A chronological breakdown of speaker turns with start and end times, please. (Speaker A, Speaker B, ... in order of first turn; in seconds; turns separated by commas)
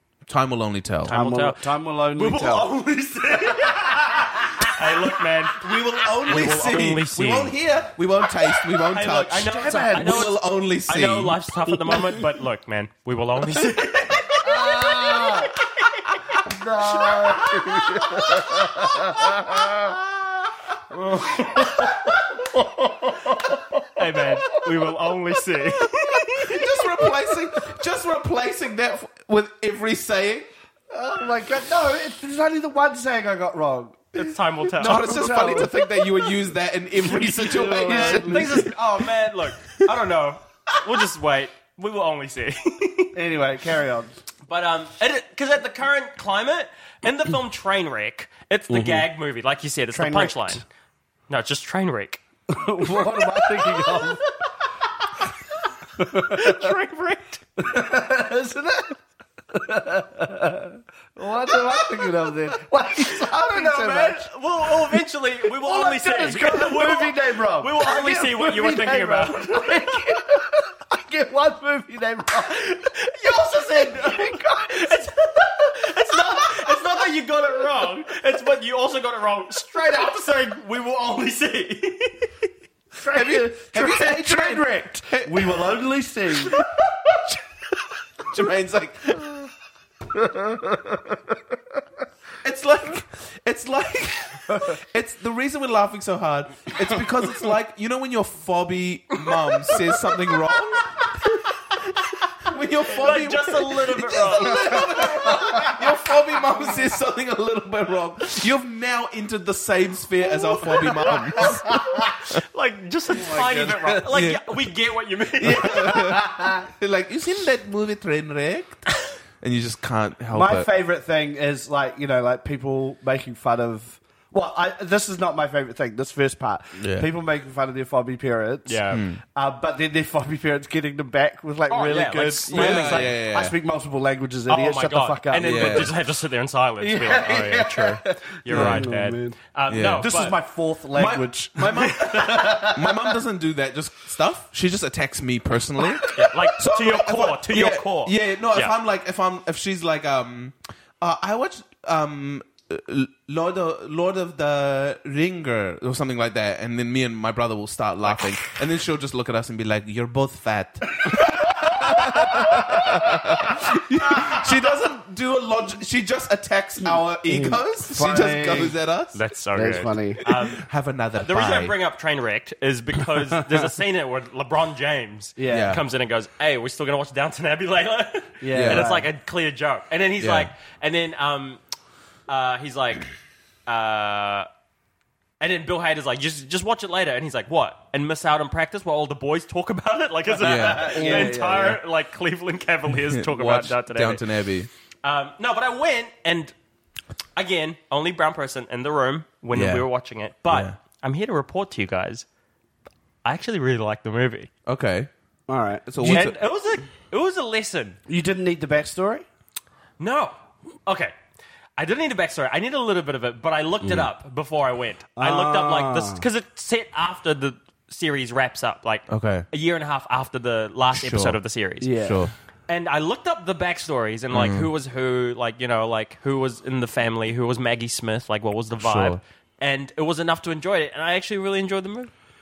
Speaker A: 0.3-1.1, Speaker B: 1.1-2.7, Speaker C: 1.1-7.5, Speaker B: 3.4-4.7, Speaker A: 5.5-11.9, Speaker C: 8.9-16.2, Speaker B: 9.3-10.3, Speaker B: 14.4-15.5, Speaker B: 16.4-20.0, Speaker B: 20.9-24.9, Speaker C: 21.4-21.8, Speaker C: 23.9-26.6, Speaker A: 26.4-30.5, Speaker B: 30.9-34.2, Speaker C: 34.1-35.6, Speaker B: 34.8-35.9, Speaker A: 34.8-38.7, Speaker B: 37.1-38.7, Speaker C: 37.6-43.1, Speaker B: 43.1-44.2, Speaker C: 44.5-50.6, Speaker B: 48.7-49.0, Speaker B: 49.9-50.6, Speaker C: 51.3-52.2, Speaker B: 52.5-54.2, Speaker B: 56.0-56.7, Speaker C: 56.0-57.4, Speaker B: 57.6-59.0, Speaker B: 59.5-64.3, Speaker C: 63.1-70.1, Speaker B: 65.5-72.7, Speaker C: 72.5-82.3, Speaker B: 73.3-75.0, Speaker B: 83.0-86.6, Speaker A: 83.1-85.7, Speaker A: 88.3-89.5, Speaker B: 90.1-91.2, Speaker A: 92.4-101.2, Speaker B: 94.5-94.7, Speaker A: 102.4-112.0, Speaker C: 102.9-105.8, Speaker B: 104.5-105.7, Speaker C: 110.8-116.0, Speaker B: 111.1-112.0, Speaker B: 113.2-114.2, Speaker A: 114.1-114.5, Speaker A: 115.4-118.9, Speaker B: 115.6-116.7, Speaker A: 119.4-120.7, Speaker B: 120.3-135.9, Speaker A: 126.8-127.1, Speaker C: 128.7-129.1, Speaker A: 128.9-129.2, Speaker C: 131.7-133.1, Speaker A: 132.5-133.6, Speaker C: 134.5-140.4, Speaker A: 135.4-135.9, Speaker B: 136.8-139.4, Speaker A: 138.5-138.9, Speaker A: 139.7-140.1, Speaker B: 139.9-143.2, Speaker A: 141.0-169.2, Speaker C: 141.9-142.2, Speaker C: 146.1-148.7, Speaker B: 161.7-163.0, Speaker B: 166.8-168.8, Speaker C: 169.1-170.7, Speaker B: 169.5-170.2, Speaker A: 170.3-171.8, Speaker C: 171.2-181.6, Speaker B: 175.4-175.8, Speaker A: 175.5-175.8, Speaker B: 178.4-179.1, Speaker A: 178.5-178.9, Speaker A: 180.2-180.5, Speaker C: 182.3-183.1, Speaker C: 183.7-184.5, Speaker C: 185.4-194.2, Speaker A: 190.4-191.4, Speaker B: 190.4-191.8, Speaker A: 193.1-194.7, Speaker C: 195.0-196.5, Speaker C: 197.4-202.3, Speaker A: 199.5-199.9, Speaker A: 200.5-200.8, Speaker C: 203.2-204.5, Speaker A: 204.7-205.1, Speaker B: 205.5-206.3, Speaker A: 205.9-206.4, Speaker C: 206.0-208.0, Speaker B: 208.1-209.2, Speaker C: 210.0-211.1, Speaker C: 211.8-221.9, Speaker A: 213.8-214.1, Speaker B: 215.2-216.2, Speaker A: 219.1-219.5, Speaker A: 220.9-221.4, Speaker B: 221.8-222.3, Speaker A: 222.0-222.3, Speaker C: 222.7-232.1, Speaker A: 224.3-224.7, Speaker A: 228.8-229.2